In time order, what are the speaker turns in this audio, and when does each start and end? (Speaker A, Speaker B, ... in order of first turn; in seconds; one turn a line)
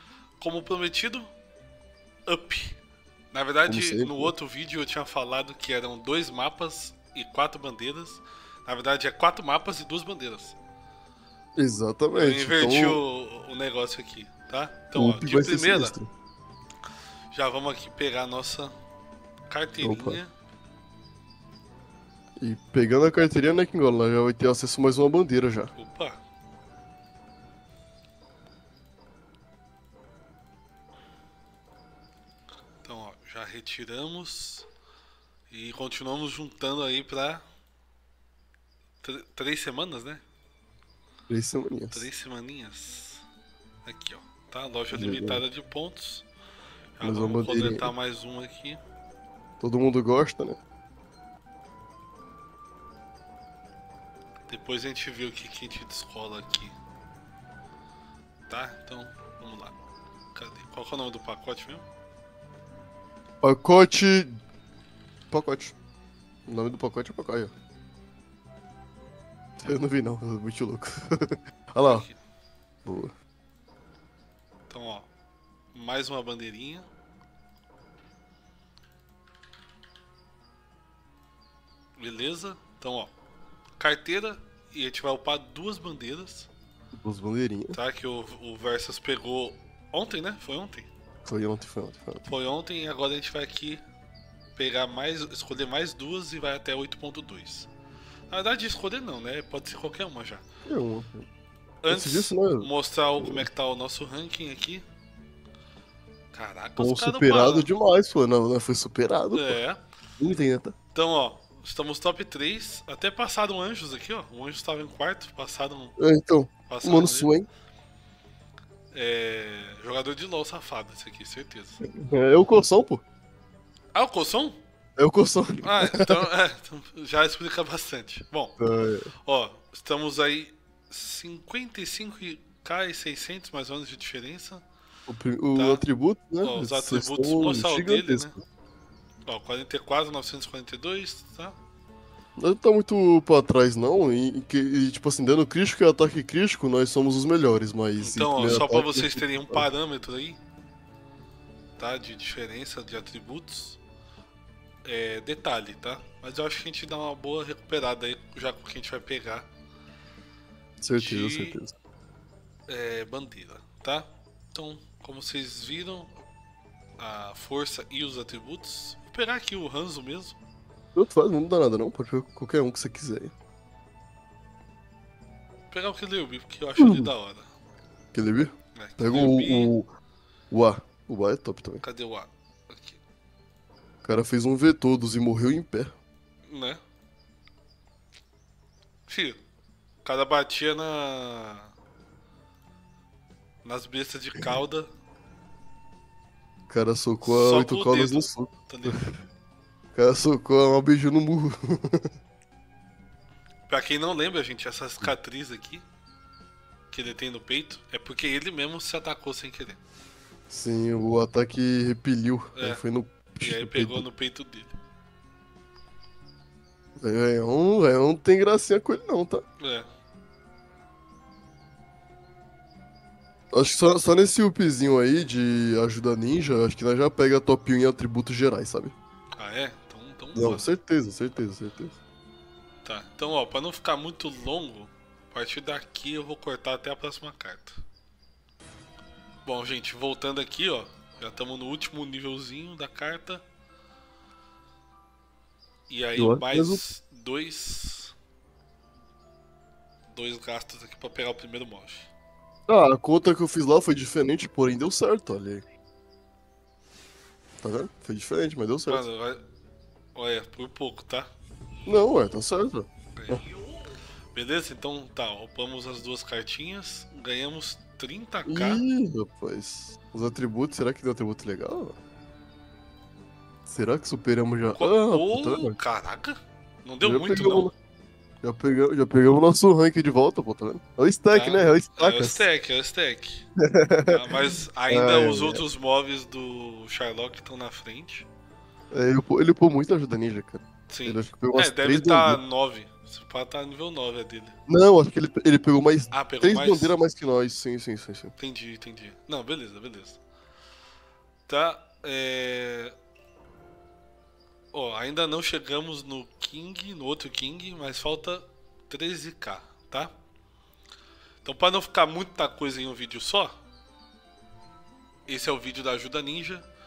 Speaker A: 0.4-1.3
Speaker A: 2.3-2.8
Speaker A: 3.3-10.6
Speaker B: 3.7-4.3
Speaker B: 11.6-13.0
Speaker A: 12.1-16.0
Speaker B: 14.9-16.1
Speaker A: 17.3-18.7
Speaker A: 19.5-20.3
Speaker B: 19.8-20.2
Speaker B: 22.4-25.7
Speaker A: 25.8-26.2
Speaker A: 32.8-34.7
Speaker A: 35.5-37.4
Speaker A: 39.0-40.2
Speaker B: 41.3-42.1
Speaker A: 41.9-43.2
Speaker A: 43.8-46.3
Speaker B: 44.9-45.4
Speaker A: 47.0-48.8
Speaker B: 47.0-47.9
Speaker B: 49.6-50.6
Speaker A: 54.5-56.7
Speaker A: 58.5-59.7
Speaker A: 60.3-61.8
Speaker B: 63.4-64.3
Speaker B: 65.3-65.8
Speaker B: 66.5-67.5
Speaker B: 69.6-72.1
Speaker A: 71.9-72.2
Speaker B: 72.8-73.1
Speaker A: 74.7-75.1
Speaker A: 75.7-76.9
Speaker A: 82.0-83.1
Speaker A: 83.8-86.5
Speaker B: 87.0-87.8
Speaker A: 87.7-90.9
Speaker B: 91.2-92.3
Speaker A: 92.2-93.8
Speaker A: 94.6-97.7
Speaker A: 98.3-100.4
Speaker B: 100.7-101.3
Speaker A: 101.8-104.8
Speaker B: 101.9-103.5
Speaker A: 106.3-107.7
Speaker B: 106.8-109.6
Speaker A: 109.3-109.8
Speaker B: 110.2-110.8
Speaker A: 110.9-116.0
Speaker B: 116.0-117.5
Speaker A: 116.7-117.3
Speaker A: 118.9-121.8
Speaker B: 121.9-123.0
Speaker A: 124.0-124.6
Speaker B: 125.0-126.2
Speaker A: 125.6-128.5
Speaker B: 128.6-129.1
Speaker A: 129.2-134.6
Speaker B: 135.1-138.4
Speaker A: 135.5-135.8
Speaker A: 136.4-138.3
Speaker A: 139.2-141.5
Speaker B: 142.4-149.7
Speaker A: 148.0-150.4
Speaker A: 151.8-153.8
Speaker A: 154.8-159.5
Speaker B: 160.8-161.7
Speaker A: 160.9-161.6
Speaker A: 162.7-166.2
Speaker A: 167.0-170.4
Speaker B: 170.9-173.3
Speaker A: 175.7-177.5
Speaker B: 176.8-177.1
Speaker B: 178.1-179.8
Speaker A: 178.8-179.7
Speaker B: 180.5-181.8
Speaker A: 181.8-183.0
Speaker B: 184.0-185.9
Speaker A: 186.5-186.8
Speaker A: 189.1-189.4
Speaker A: 190.0-191.7
Speaker A: 193.6-194.9
Speaker B: 196.7-199.1
Speaker A: 197.2-199.0
Speaker B: 199.9-202.1
Speaker A: 203.7-205.8
Speaker A: 206.9-209.8
Speaker B: 210.5-214.0
Speaker A: 212.5-212.8
Speaker A: 213.4-214.7
Speaker B: 217.0-219.4
Speaker A: 219.6-219.9
Speaker B: 223.5-228.9
Speaker A: 229.3-230.7
Speaker B: 230.3-231.9
Speaker A: 232.8-237.8
Speaker A: 239.4-243.4
Speaker A: 245.9-248.1
Speaker B: 246.2-246.8
Speaker A: 250.1-252.1
Speaker B: 252.7-255.6
Speaker B: 257.6-259.1
Speaker A: 258.9-259.4
Speaker A: 260.1-261.3
Speaker B: 261.9-263.4
Speaker A: 263.1-263.4
Speaker A: 264.3-268.8
Speaker B: 268.5-272.0
Speaker B: 273.6-275.8
Speaker A: 274.7-277.7
Speaker B: 277.0-277.7
Speaker B: 278.4-282.4
Speaker A: 281.3-283.4
Speaker B: 283.6-284.4
Speaker A: 284.1-288.3
Speaker B: 284.9-285.6
Speaker B: 288.9-292.4
Speaker A: 290.9-294.6
Speaker B: 294.7-298.3
Speaker A: 296.1-297.0
Speaker A: 298.4-300.2
Speaker A: 301.5-302.9
Speaker A: 304.7-310.1
Speaker A: 311.4-313.5
Speaker A: 315.3-316.6